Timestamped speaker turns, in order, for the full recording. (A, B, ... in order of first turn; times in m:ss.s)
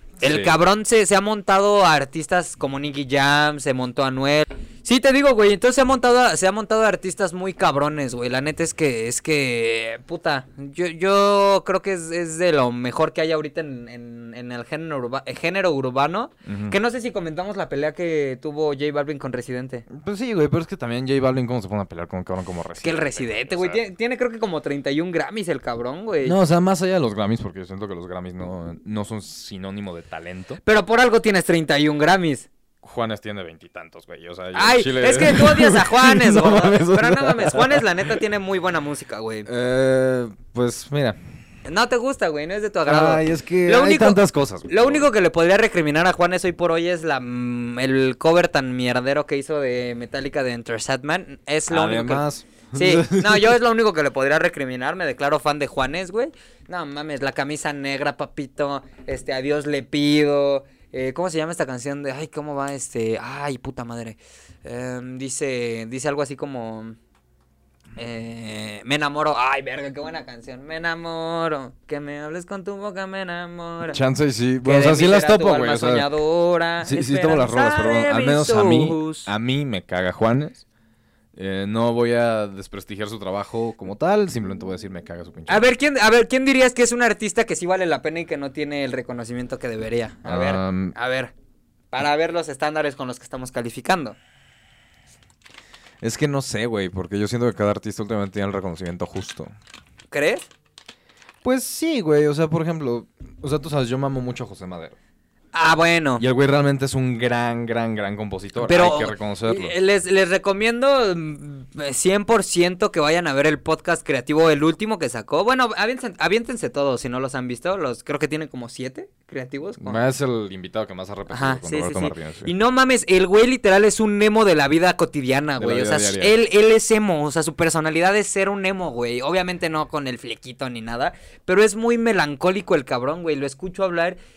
0:00.2-0:19.9 A
0:00.2-0:00.6 B
0:16.4-0:16.8 B
0:19.9-0:23.8 B
0:22.8-0:26.4 A
0:26.2-0:30.6 B
0:30.6-0:32.5 A
0:32.8-0:37.9 B
0:34.5-0:39.5 A
0:39.5-0:41.2 B
0:41.6-1:07.0 A
0:42.8-0:45.1 B
0:51.7-0:53.6 B
1:08.0-1:14.0 A
1:13.9-1:16.1 B
1:14.6-1:19.3 A
1:16.8-1:20.6 B
1:21.4-1:25.6 B
1:25.5-1:31.3 A
1:30.2-1:31.0 B
1:31.9-1:34.2 A
1:36.0-1:39.5 B
1:40.1-1:40.5 A
1:41.4-1:45.0 B
1:45.5-1:46.2 A
1:46.2-1:49.8 B
1:48.6-2:00.0 A
1:59.8-2:02.5 B
2:01.3-2:14.2 A
2:05.6-2:06.4 B